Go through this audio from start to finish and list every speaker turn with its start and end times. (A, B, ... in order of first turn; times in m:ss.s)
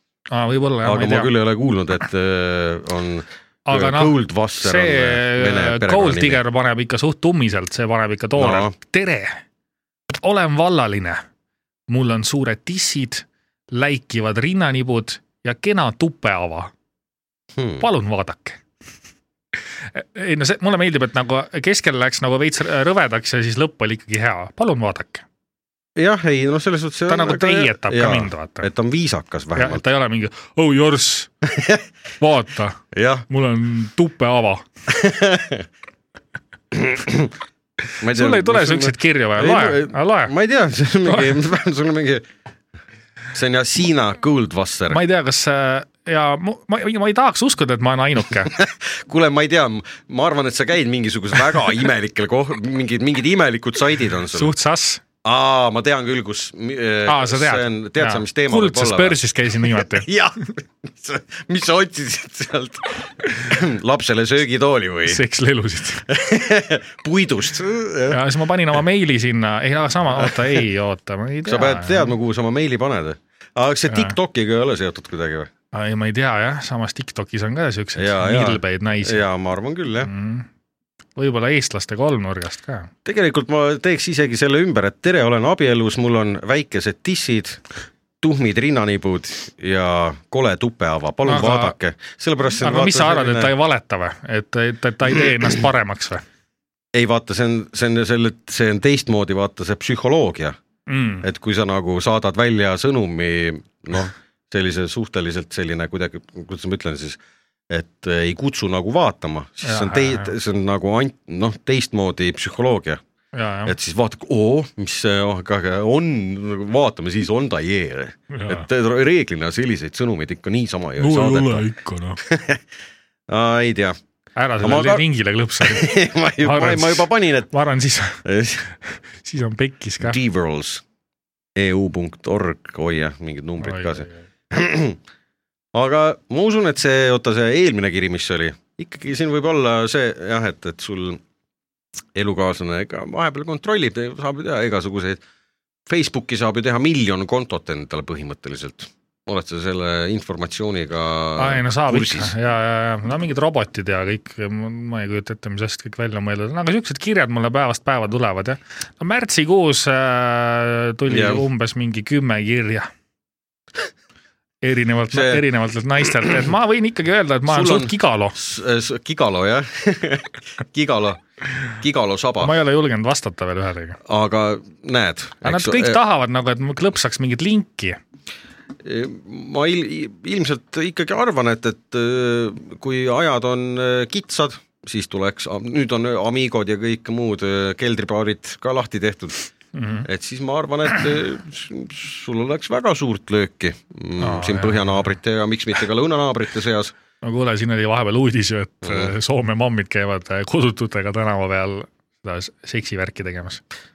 0:00.3-0:01.3 A
0:00.8-0:06.4 B
0:03.6-0:09.4 A
0:08.4-0:08.7 B
0:10.1-0:11.2 A
0:11.9-0:16.7 A
0:17.6-0:17.8 B
0:17.8-0:18.6 A
0:19.9-0:25.2 A
0:26.0-0:29.8 B
0:27.1-0:28.7 A
0:29.5-0:31.3 A
0:31.4-0:31.8 B
0:32.2-0:34.6 A
0:32.9-0:33.2 B
0:34.9-0:35.6 B
0:36.7-0:37.3 B
0:38.0-0:42.2 B
0:38.0-0:40.3 A
0:43.3-0:45.0 B
0:44.9-0:48.5 A
0:48.5-0:54.5 B
0:54.3-0:55.0 A
0:55.2-1:05.2 B
0:57.0-1:00.1 A
1:05.1-1:06.0 A
1:06.1-1:08.2 B
1:08.1-1:12.1 A
1:11.4-1:15.5 B
1:13.9-1:14.1 A
1:15.7-1:19.2 A
1:18.0-1:20.1 B
1:20.0-1:20.5 A
1:21.2-1:22.9 A
1:23.0-1:27.6 B
1:28.2-1:33.5 B
1:31.2-1:31.7 A
1:32.6-1:36.2 A
1:36.9-1:40.6 B
1:40.9-1:41.2 A
1:41.2-1:53.0 B
1:49.6-1:50.3 A
1:53.3-1:53.7 A
1:53.6-2:01.7 B
1:58.3-1:58.6 A
2:01.0-2:02.2 A
2:02.2-2:02.6 B
2:03.3-2:04.0 B
2:04.4-2:08.2 A
2:04.6-2:05.0 B
2:05.6-2:07.5 B
2:08.2-2:08.7 B
2:08.8-2:10.2 A
2:10.0-2:10.8 B
2:11.6-2:15.0 B
2:13.6-2:14.1 A
2:15.7-2:21.2 B
2:22.1-2:25.2 B
2:25.9-2:32.3 B
2:31.4-2:42.9 A
2:41.1-2:41.4 B
2:44.6-2:48.4 A
2:45.1-2:45.4 B
2:47.5-2:52.6 B
2:52.4-2:54.0 A
2:54.0-2:56.0 B
2:55.4-2:58.0 A
2:58.8-3:09.4 B
3:09.7-3:10.1 A
3:10.0-3:16.9 B
3:14.2-3:15.1 A
3:17.2-3:23.6 A
3:18.8-3:19.1 B